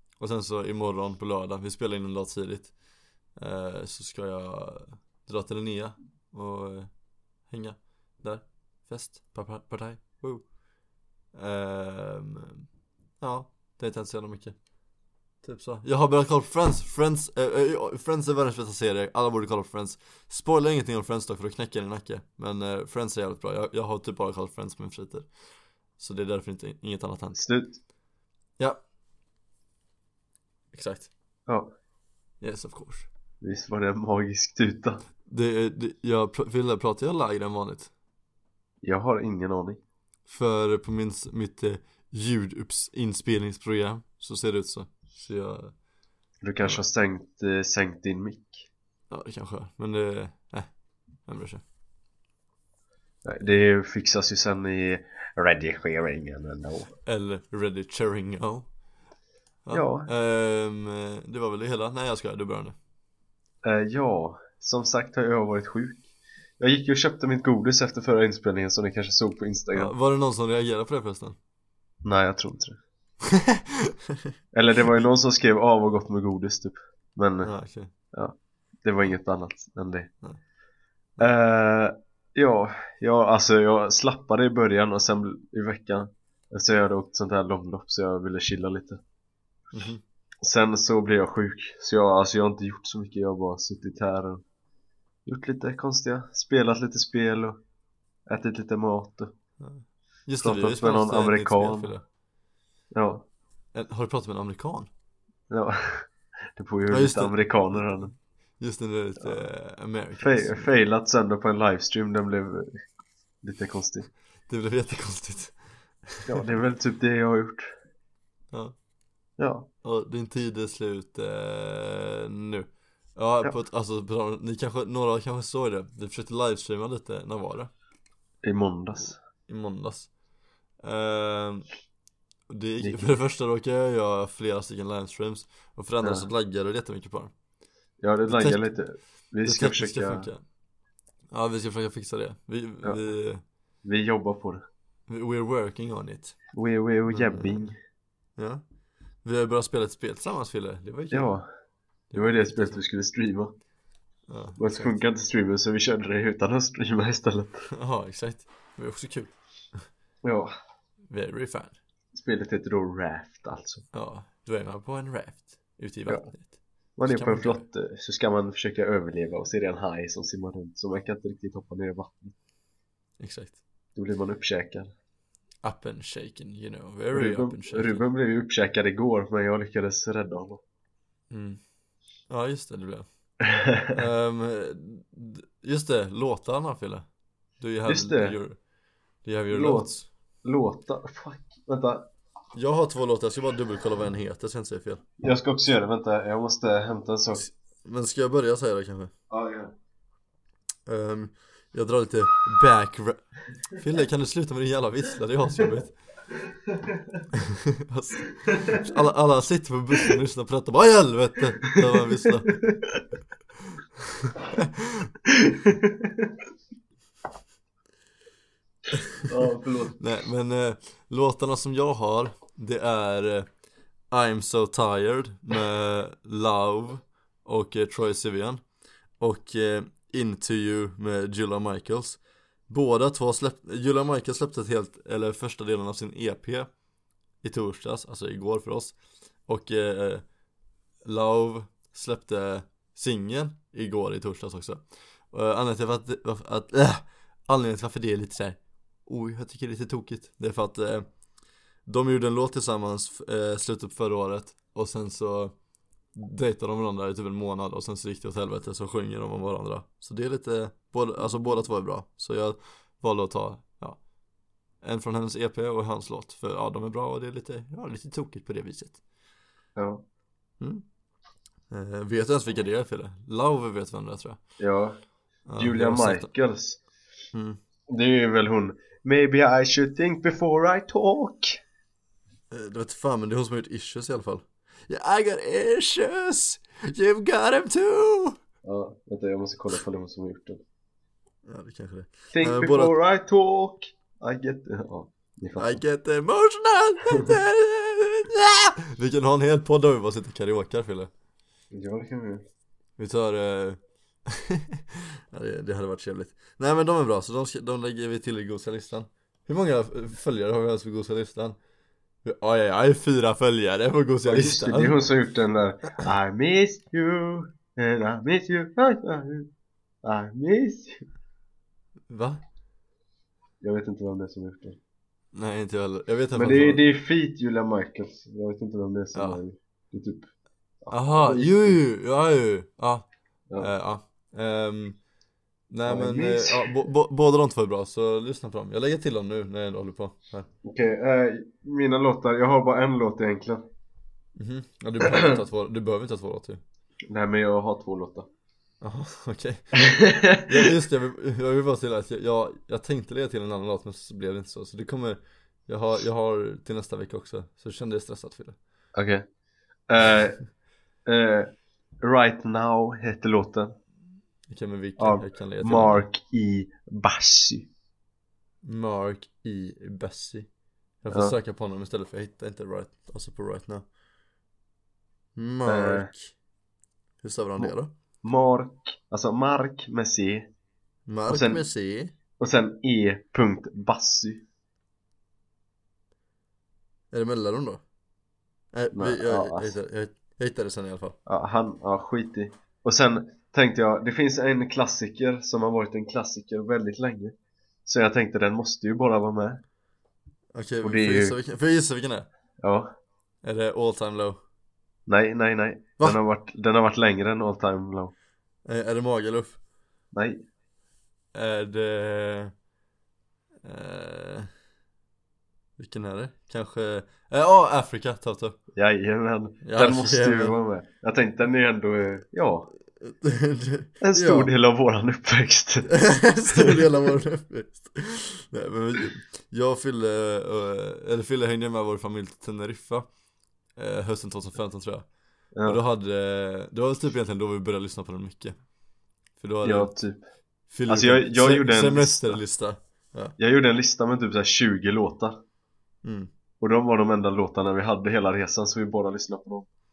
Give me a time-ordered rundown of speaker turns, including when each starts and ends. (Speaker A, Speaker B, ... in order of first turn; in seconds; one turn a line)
Speaker A: 0.2-2.7
Speaker A: 3.4-6.9
Speaker A: 7.5-10.5
Speaker A: 11.3-12.7
Speaker A: 13.2-14.6
Speaker A: 15.4-25.3
Speaker A: 26.0-27.4
Speaker B: 27.4-27.8
Speaker A: 30.7-31.1
Speaker A: 32.4-33.1
Speaker B: 33.4-35.0
Speaker A: 35.3-37.9
Speaker B: 38.8-39.8
Speaker A: 40.3-45.7
Speaker B: 46.4-48.7
Speaker A: 49.1-50.7
Speaker A: 51.2-51.6
Speaker B: 53.2-56.9
Speaker A: 57.0-58.7
Speaker A: 59.6-62.8
Speaker B: 59.7-60.1
Speaker B: 63.6-66.1
Speaker B: 66.6-69.9
Speaker A: 69.7-71.4
Speaker B: 72.0-72.8
Speaker A: 73.3-74.3
Speaker B: 74.5-77.5
Speaker A: 77.4-77.9
Speaker B: 78.1-80.1
Speaker B: 81.2-89.0
Speaker A: 89.7-90.0
Speaker B: 90.4-94.4
Speaker B: 95.2-97.6
Speaker B: 98.3-99.3
Speaker A: 99.6-102.0
Speaker B: 100.4-102.0
Speaker B: 102.9-103.2
Speaker A: 103.7-104.9
Speaker B: 105.5-108.1
Speaker A: 106.9-108.0
Speaker A: 108.6-110.7
Speaker B: 110.2-112.8
Speaker B: 113.4-114.1
Speaker A: 114.5-116.5
Speaker B: 116.3-117.7
Speaker B: 119.4-119.7
Speaker A: 119.8-127.7
Speaker B: 128.4-129.2
Speaker A: 129.5-130.1
Speaker A: 130.8-131.7
Speaker A: 132.5-137.3
Speaker B: 132.8-133.1
Speaker B: 136.0-136.3
Speaker B: 138.0-140.3
Speaker A: 138.2-138.7
Speaker A: 139.4-140.4
Speaker A: 141.3-143.4
Speaker B: 143.8-144.6
Speaker A: 145.1-146.4
Speaker B: 146.5-147.8
Speaker A: 147.1-147.7
Speaker A: 148.4-148.6
Speaker A: 149.2-151.3
Speaker B: 151.1-151.4
Speaker A: 152.1-152.8
Speaker B: 152.1-153.5
Speaker A: 154.3-154.9
Speaker B: 154.6-157.7
Speaker A: 157.7-159.3
Speaker B: 160.2-160.5
Speaker A: 161.1-161.8
Speaker B: 162.1-163.8
Speaker A: 163.9-166.5
Speaker B: 167.0-172.3
Speaker A: 167.1-167.6
Speaker A: 173.2-173.6
Speaker B: 173.9-174.9
Speaker A: 175.6-178.0
Speaker B: 177.1-180.6
Speaker A: 181.3-181.6
Speaker A: 182.3-183.1
Speaker B: 183.4-183.9
Speaker A: 183.9-187.1
Speaker A: 187.6-188.6
Speaker B: 187.8-188.4
Speaker A: 189.2-190.1
Speaker B: 189.5-189.9
Speaker B: 190.4-192.1
Speaker A: 192.5-195.0
Speaker B: 195.2-197.4
Speaker A: 197.4-199.1
Speaker B: 199.3-199.7
Speaker A: 200.8-205.9
Speaker A: 207.3-212.6
Speaker B: 212.5-213.0
Speaker A: 214.0-215.1
Speaker B: 215.3-216.3
Speaker A: 218.9-219.2
Speaker B: 219.2-220.0
Speaker A: 220.0-223.5
Speaker A: 224.1-228.6
Speaker A: 229.2-236.7
Speaker A: 237.4-238.9
Speaker A: 239.5-240.2
Speaker A: 241.0-251.1
Speaker A: 251.8-255.6
Speaker A: 256.1-264.0
Speaker A: 264.8-269.0
Speaker B: 269.8-270.0
Speaker A: 271.7-274.4
Speaker B: 274.6-275.0
Speaker A: 275.5-276.3
Speaker B: 275.6-276.8
Speaker A: 277.3-277.6
Speaker B: 277.9-281.6
Speaker A: 282.5-288.4
Speaker B: 288.6-290.6
Speaker A: 291.4-292.9
Speaker B: 292.3-295.8
Speaker A: 295.6-301.1
Speaker B: 301.7-302.4
Speaker A: 303.0-311.6
Speaker A: 312.2-315.0
Speaker B: 314.2-319.5
Speaker B: 320.0-321.0
Speaker A: 322.1-322.4
Speaker B: 323.6-324.8
Speaker A: 325.3-326.8
Speaker B: 326.3-330.3
Speaker A: 329.1-329.4
Speaker B: 330.8-331.8
Speaker A: 330.9-335.0
Speaker A: 335.7-340.5
Speaker B: 335.9-336.7
Speaker B: 340.6-343.6
Speaker A: 344.4-346.6
Speaker B: 345.0-345.3
Speaker B: 347.1-348.3
Speaker A: 348.8-358.6
Speaker B: 349.8-350.7
Speaker B: 358.9-359.2
Speaker B: 359.9-360.4
Speaker B: 361.1-361.5
Speaker B: 362.0-363.8
Speaker A: 364.5-366.0
Speaker B: 365.0-367.7
Speaker A: 368.6-370.5
Speaker A: 371.0-373.9
Speaker B: 371.1-371.3
Speaker A: 375.4-376.3
Speaker B: 375.6-376.1
Speaker A: 377.2-377.9
Speaker B: 377.6-380.5
Speaker A: 381.1-382.1
Speaker B: 381.3-381.6
Speaker B: 382.4-384.4
Speaker A: 387.1-387.8
Speaker A: 388.7-391.2
Speaker B: 388.9-389.8
Speaker B: 391.2-397.3
Speaker B: 397.9-399.6
Speaker A: 400.5-402.3
Speaker B: 400.8-401.4
Speaker B: 402.6-402.9
Speaker A: 403.4-404.4
Speaker B: 405.1-408.1
Speaker A: 408.6-409.6
Speaker B: 410.1-410.4
Speaker A: 411.3-412.5
Speaker A: 413.6-414.5
Speaker A: 415.8-418.6
Speaker B: 418.7-422.7
Speaker A: 419.6-420.6
Speaker A: 423.0-424.5
Speaker B: 424.0-425.9
Speaker A: 425.9-433.1
Speaker B: 426.5-426.8
Speaker A: 433.8-435.1
Speaker B: 435.5-435.8
Speaker A: 435.6-438.6
Speaker A: 439.4-439.9
Speaker B: 439.6-440.2
Speaker A: 440.7-443.4
Speaker B: 440.9-442.4
Speaker B: 443.4-445.4
Speaker A: 446.0-446.3
Speaker B: 446.6-449.7